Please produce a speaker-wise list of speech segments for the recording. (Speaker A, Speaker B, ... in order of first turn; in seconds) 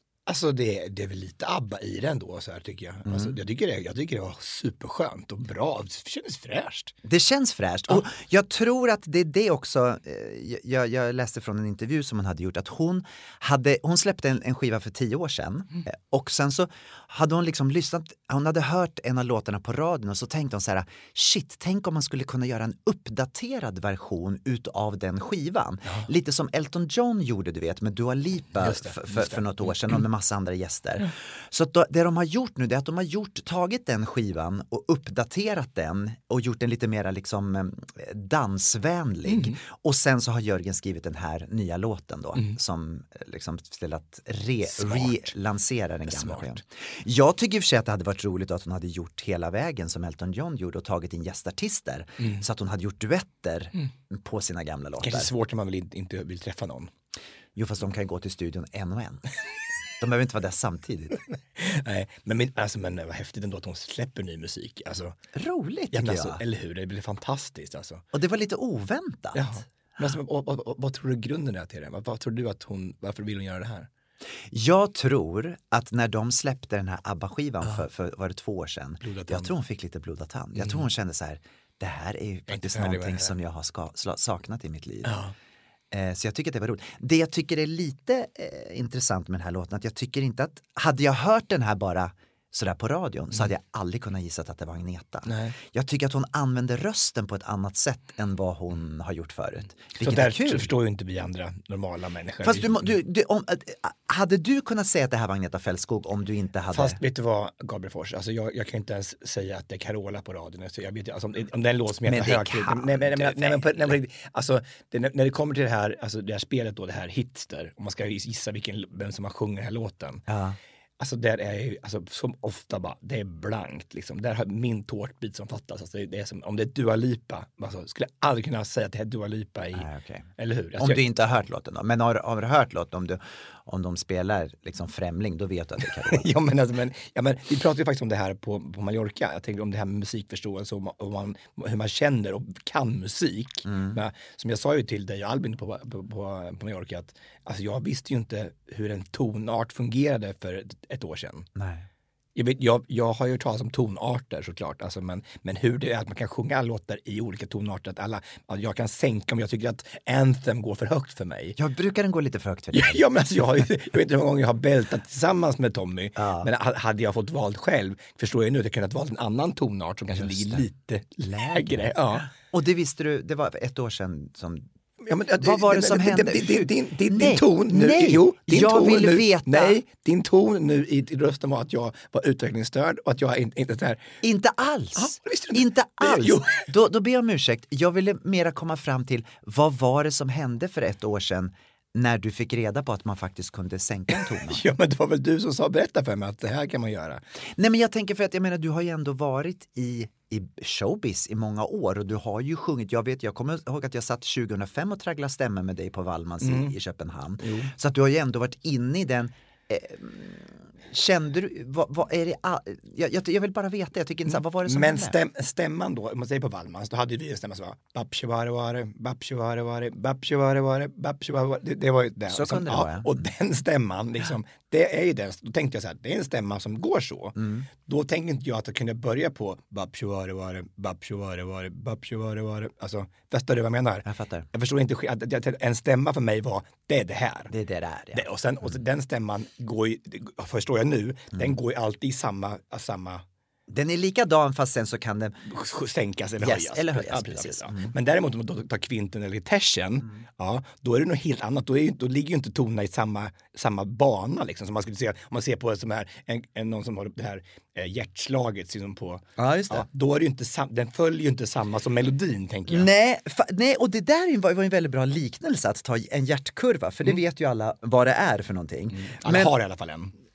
Speaker A: 0.3-7.0, 28.6-30.0, 39.3-39.6, 44.7-45.3, 46.1-46.6, 55.0-56.9, 61.6-65.2, 65.9-68.0, 69.3-73.9, 79.0-79.5, 80.6-80.9, 82.5-83.3, 85.0-85.3, 95.3-95.5, 100.0-102.9, 106.7-120.2, 121.0-129.9, 130.4-131.0, 136.1-151.5, 152.3-161.6, 162.7-172.3, 175.1-184.0, 185.0-186.7, 194.2-197.2, 206.4-206.7, 207.4-207.7, 214.3-237.5, 238.1-243.2, 245.5-262.9, 268.9-270.1
Speaker B: 3.1-3.4, 7.0-55.3, 57.6-59.2, 60.0-61.2, 65.3-66.4, 68.1-69.5, 74.5-85.2, 85.9-100.7, 102.4-107.0, 112.1-114.0, 120.3-120.6, 129.7-136.3, 143.7-144.0, 151.6-151.9, 161.6-163.0, 166.2-166.5, 170.2-170.6, 171.3-174.7, 175.4-179.8, 184.2-194.6, 197.6-215.2, 222.3-223.2, 227.4-227.7, 234.1-234.5, 237.5-238.3, 243.7-245.4, 246.4-247.9, 259.4-259.9, 262.7-269.5